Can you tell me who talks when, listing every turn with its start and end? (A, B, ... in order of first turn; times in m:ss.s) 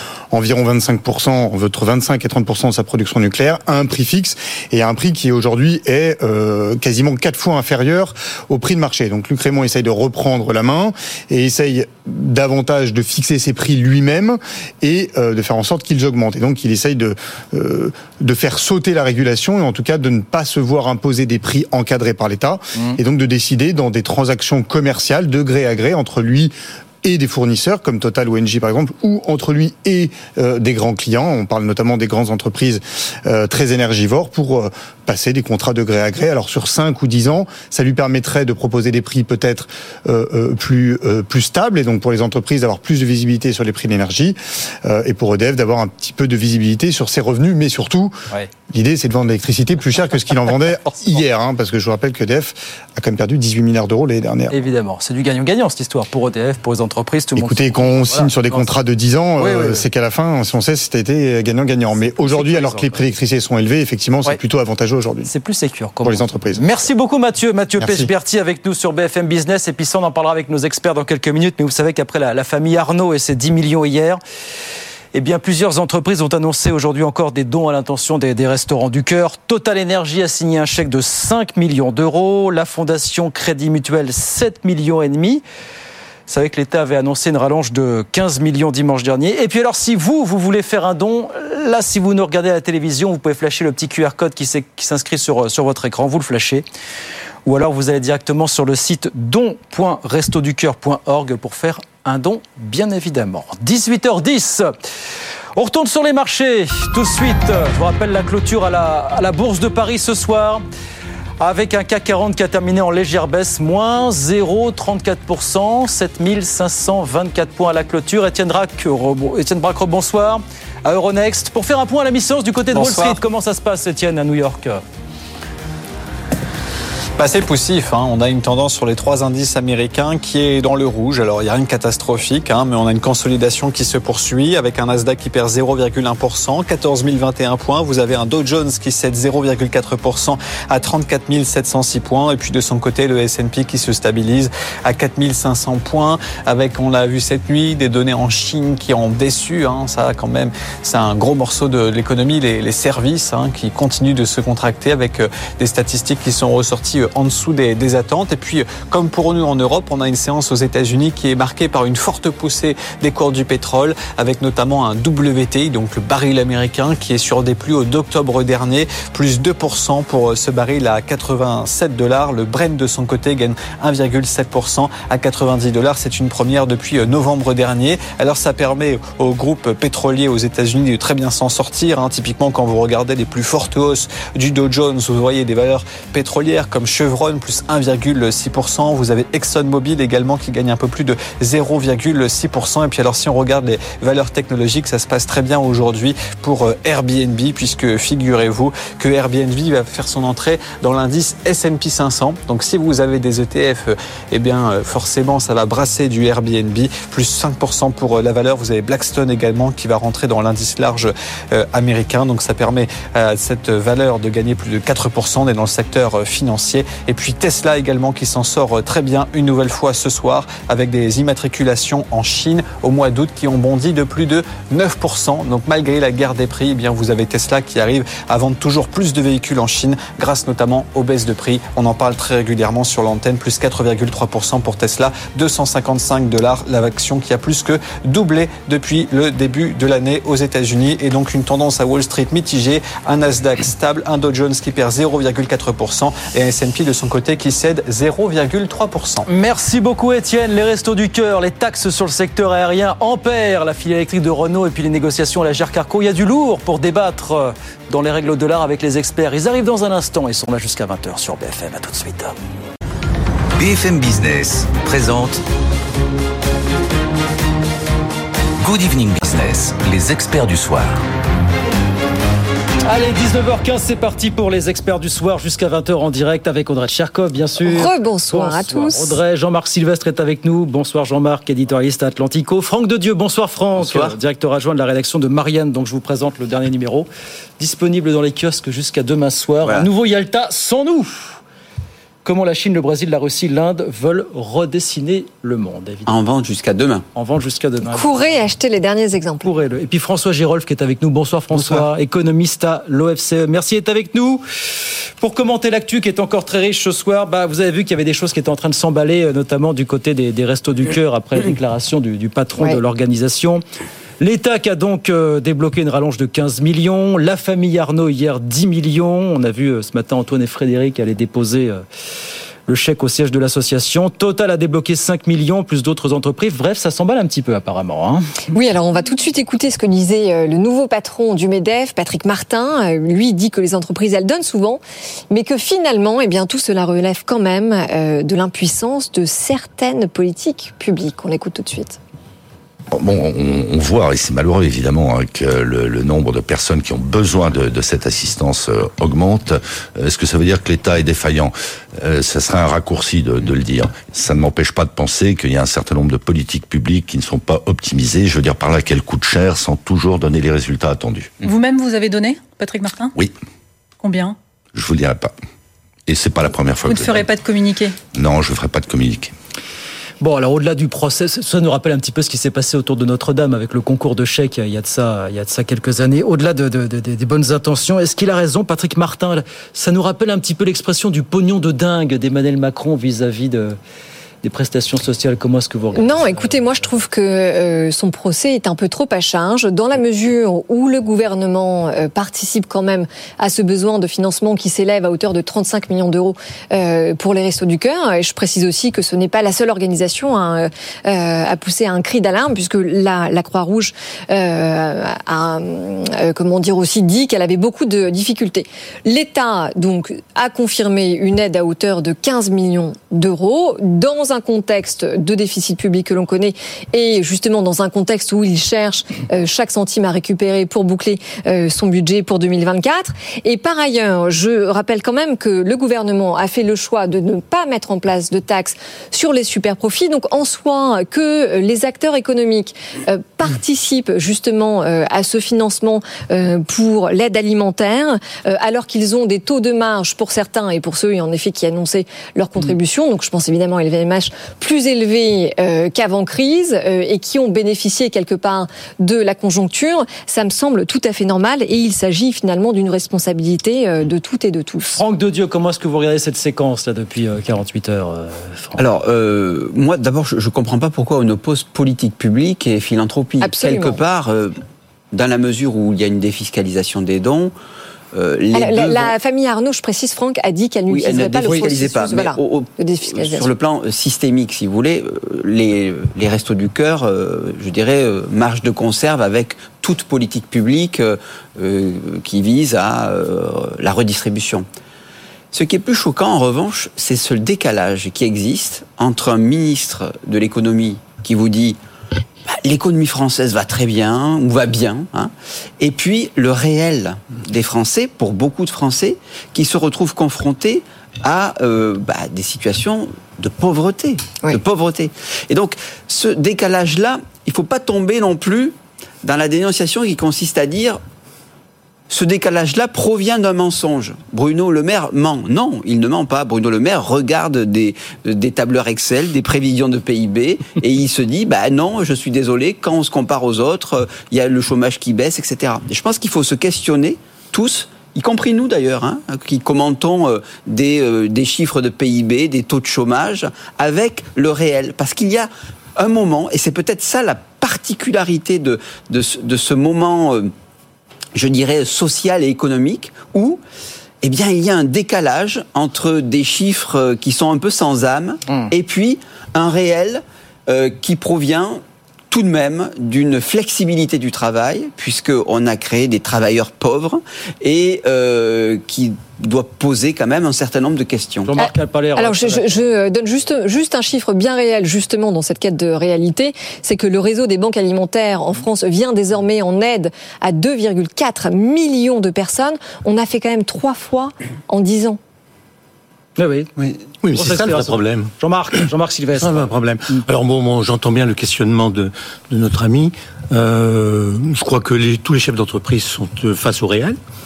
0:00.3-0:48.2 A
0:48.7-0:54.5 A
0:54.5-0:58.7 B
0:57.4-1:05.3 A
0:59.4-0:59.8 B
1:01.9-1:03.1 B
1:05.2-1:14.2 B
1:06.0-1:06.6 A
1:07.8-1:08.1 A
1:15.1-1:25.4 B
1:26.3-1:36.6 B
1:37.5-1:44.7 B
1:45.6-1:50.6 B
1:51.4-2:04.8 B
2:02.7-2:03.2 C
2:07.2-4:09.3 C
4:09.3-4:22.4 B
4:23.6-4:25.4 D
4:28.6-4:31.0 D
4:32.9-4:47.1 B
4:37.6-4:39.2 E
4:43.8-4:44.1 F
4:47.6-4:51.4 B
4:49.6-4:49.9 F
4:52.2-4:56.1 B
4:56.1-4:57.0 F
4:57.2-4:58.1 B
4:57.9-4:59.5 E
4:59.4-5:04.4 B
5:05.2-5:13.6 B
5:14.2-5:21.8 B
5:22.7-5:28.4 B
5:28.5-5:42.0 E
5:42.9-6:01.4 G
6:01.4-6:03.1 H
6:04.0-6:04.4 H
6:04.7-6:05.3 G
6:06.1-6:07.3 G
6:06.8-6:08.0 H
6:08.1-6:09.3 G
6:10.2-6:23.8 B
6:24.4-6:26.6 B
6:26.0-7:35.0 E
7:34.9-7:38.8 B
7:38.8-7:44.6 F
7:43.4-7:44.0 E
7:45.1-7:47.5 F
7:48.1-7:49.1 F
7:48.5-7:53.5 E
7:50.9-8:04.7 F
8:05.5-8:11.8 F
8:12.5-8:31.0 F
8:32.1-9:00.5 F
9:01.4-9:03.6 F
9:04.2-9:21.5 F
9:21.5-9:22.8 B
9:21.6-9:35.2 E
9:36.4-9:36.7 B
9:37.2-9:38.3 I
9:37.4-9:40.2 B
9:39.4-9:47.2 I